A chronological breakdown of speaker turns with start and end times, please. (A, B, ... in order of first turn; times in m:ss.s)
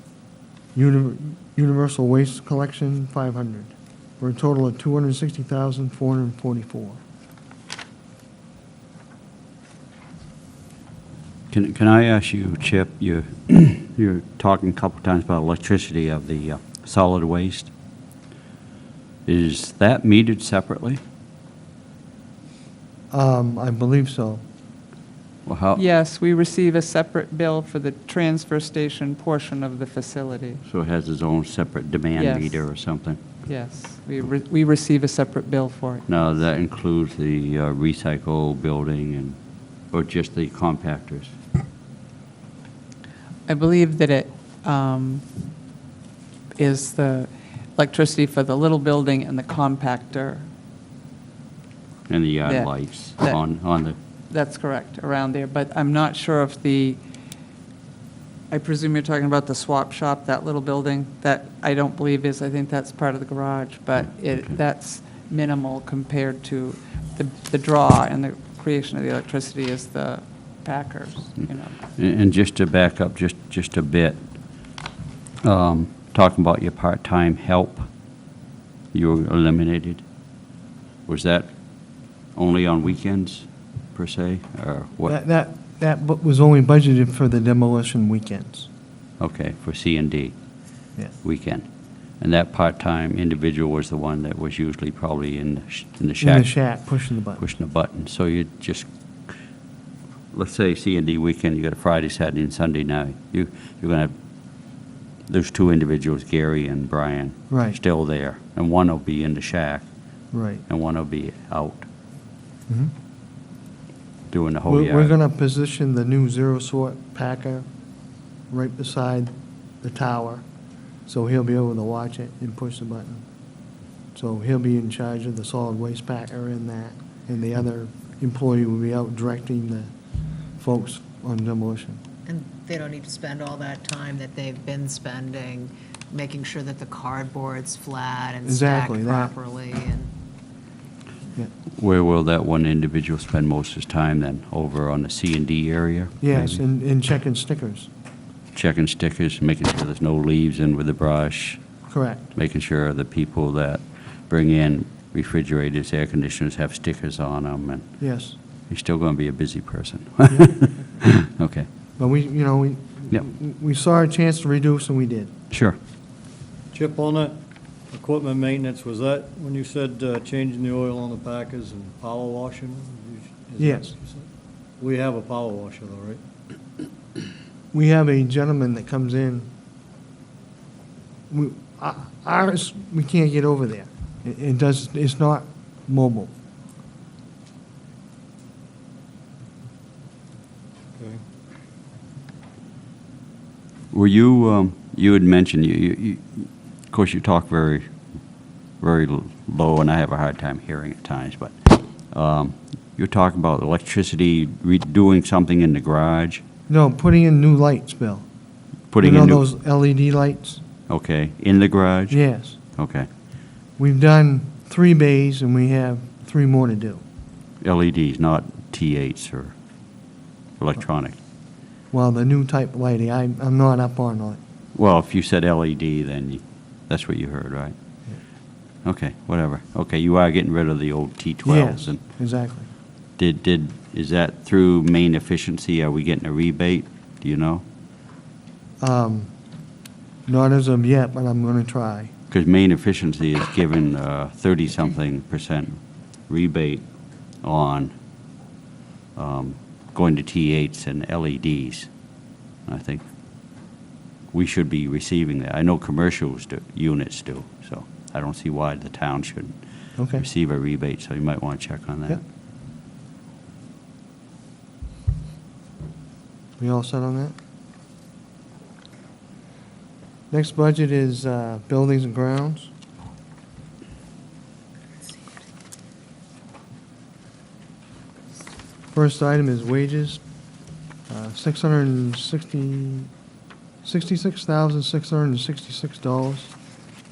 0:00.7-0:07.0 A
0:11.5-0:17.7 B
0:19.2-0:21.0 B
0:23.1-0:24.4 A
0:25.4-0:25.8 B
0:25.8-0:30.6 C
0:30.6-0:33.2 B
0:32.2-0:32.7 C
0:33.4-0:36.1 C
0:36.1-0:39.4 B
0:39.9-0:41.4 B
0:43.5-0:45.2 C
0:46.5-0:50.5 C
0:52.1-0:54.0 B
0:52.4-0:53.4 C
0:54.3-0:57.0 C
0:58.5-1:11.8 C
1:04.3-1:04.5 B
1:11.9-1:14.2 B
1:15.4-1:17.9 B
1:18.9-1:20.0 B
1:21.1-1:21.5 B
1:22.3-1:25.2 B
1:25.0-1:28.7 A
1:29.2-1:30.3 B
1:31.2-1:31.6 B
1:32.2-1:36.7 B
1:36.2-1:37.4 A
1:37.4-1:38.9 B
1:40.3-1:44.1 B
1:45.3-1:49.9 B
1:47.5-1:47.8 A
1:50.3-1:50.6 A
1:50.7-1:51.9 B
1:52.7-1:52.9 A
1:54.3-1:55.1 B
1:54.7-1:57.6 A
1:58.5-2:00.4 A
2:01.1-2:03.2 A
2:04.1-2:09.9 A
2:10.6-2:12.0 A
2:12.2-2:20.1 D
2:18.4-2:19.3 A
2:21.7-2:26.6 B
2:26.2-2:27.9 A
2:28.5-2:31.6 B
2:31.9-2:32.3 A
2:32.3-2:38.0 B
2:38.0-2:38.4 A
2:38.7-2:41.7 B
2:42.0-2:45.3 A
2:45.5-2:45.8 B
2:46.7-2:47.4 E
2:47.9-2:54.2 E
2:53.6-2:53.9 A
2:54.8-2:56.2 E
2:57.7-2:59.5 A
3:01.3-3:06.3 A
3:11.0-3:11.2 E
3:13.9-3:17.9 B
3:18.8-3:26.4 B
3:26.7-3:28.3 A
3:28.9-3:29.4 B
3:29.0-3:30.6 A
3:30.9-3:32.2 B
3:32.1-3:32.6 A
3:32.7-3:33.1 B
3:33.8-3:37.0 A
3:37.6-3:39.5 B
3:40.6-3:41.2 B
3:41.9-3:44.4 A
3:44.7-3:47.7 B
3:48.8-3:52.0 B
3:51.4-3:52.7 A
3:53.2-3:57.6 B
3:58.8-3:59.3 A
4:00.2-4:02.1 A
4:02.3-4:06.8 B
4:07.4-4:07.9 B
4:09.2-4:11.9 B
4:12.6-4:13.0 B
4:14.3-4:19.6 B
4:20.0-4:20.2 A
4:20.1-4:22.2 B
4:26.6-4:27.3 A
4:30.3-4:32.7 A
4:38.9-4:40.2 A
4:41.1-4:43.1 A
4:43.8-4:46.5 A